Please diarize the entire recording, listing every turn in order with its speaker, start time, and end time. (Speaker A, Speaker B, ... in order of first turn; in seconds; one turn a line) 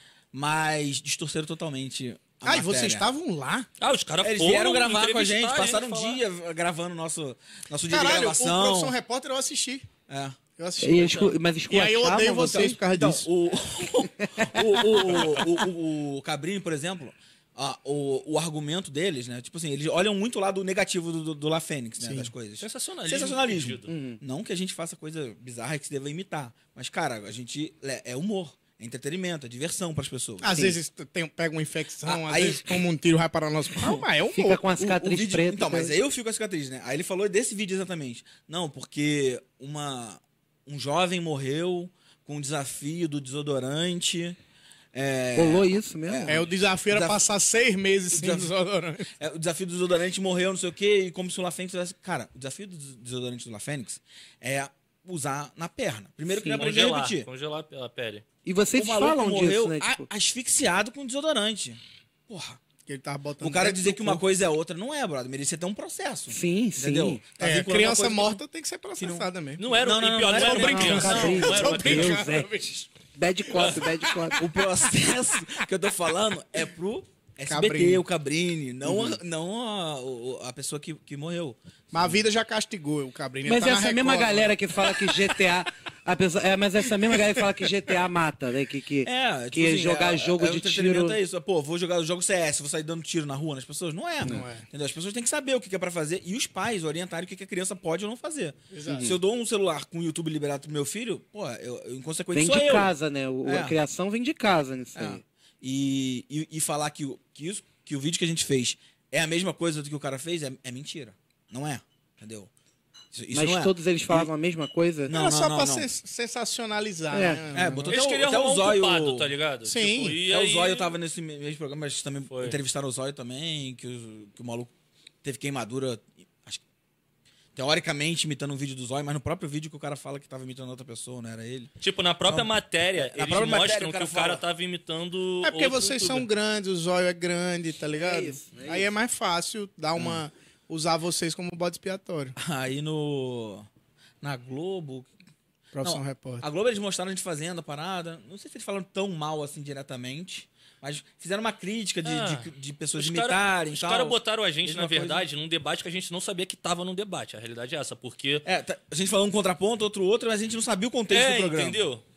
Speaker A: 0.3-3.1
Speaker B: 2.4-3.7
Speaker C: 3.8-6.2
Speaker A: 4.2-8.9
Speaker B: 7.9-9.9
Speaker A: 10.1-10.4
Speaker B: 10.6-13.3
Speaker D: 10.8-12.8
Speaker A: 12.5-30.6
Speaker D: 14.2-14.6
Speaker B: 22.0-22.3
Speaker C: 22.6-23.9
Speaker D: 23.9-24.2
Speaker B: 30.4-34.6
Speaker D: 30.5-30.8
Speaker A: 32.0-32.8
Speaker D: 34.3-35.9
Speaker A: 34.8-44.4
Speaker A: 44.9-47.2
Speaker D: 45.4-46.4
Speaker B: 46.2-49.1
Speaker A: 48.1-48.5
Speaker A: 49.2-57.3
Speaker D: 56.3-56.6
Speaker C: 56.5-58.2
Speaker D: 58.4-60.1
Speaker A: 58.7-62.6
Speaker B: 62.9-64.2
Speaker A: 63.4-68.4
Speaker D: 66.3-67.2
Speaker B: 67.4-69.6
Speaker A: 69.0-71.8
Speaker C: 69.6-72.3
Speaker B: 70.3-72.9
Speaker D: 70.4-74.4
Speaker B: 73.6-74.4
Speaker A: 74.4-82.2
Speaker B: 77.5-78.0
Speaker D: 78.8-79.2
Speaker B: 81.9-85.3
Speaker D: 83.5-91.2
Speaker A: 89.0-102.9
Speaker B: 94.2-94.7
Speaker B: 98.7-99.1
Speaker D: 98.9-99.2
Speaker D: 102.3-105.2
Speaker A: 103.4-103.8
Speaker A: 104.9-112.5
Speaker A: 113.1-114.3
Speaker D: 113.3-115.1
Speaker A: 115.0-115.9
Speaker B: 115.1-117.9
Speaker D: 117.1-117.8
Speaker A: 117.5-119.3
Speaker C: 117.9-120.9
Speaker B: 119.6-120.2
Speaker A: 120.2-124.7
Speaker C: 122.3-122.6
Speaker A: 125.2-126.6
Speaker A: 127.5-131.7
Speaker C: 131.8-136.3
Speaker A: 132.3-134.4
Speaker B: 135.4-142.3
Speaker D: 137.9-138.9
Speaker A: 139.9-140.2
Speaker A: 142.3-143.7
Speaker A: 144.2-145.1
Speaker B: 145.7-146.4
Speaker A: 145.8-155.2
Speaker C: 152.0-158.4
Speaker A: 158.4-161.9
Speaker C: 161.1-162.0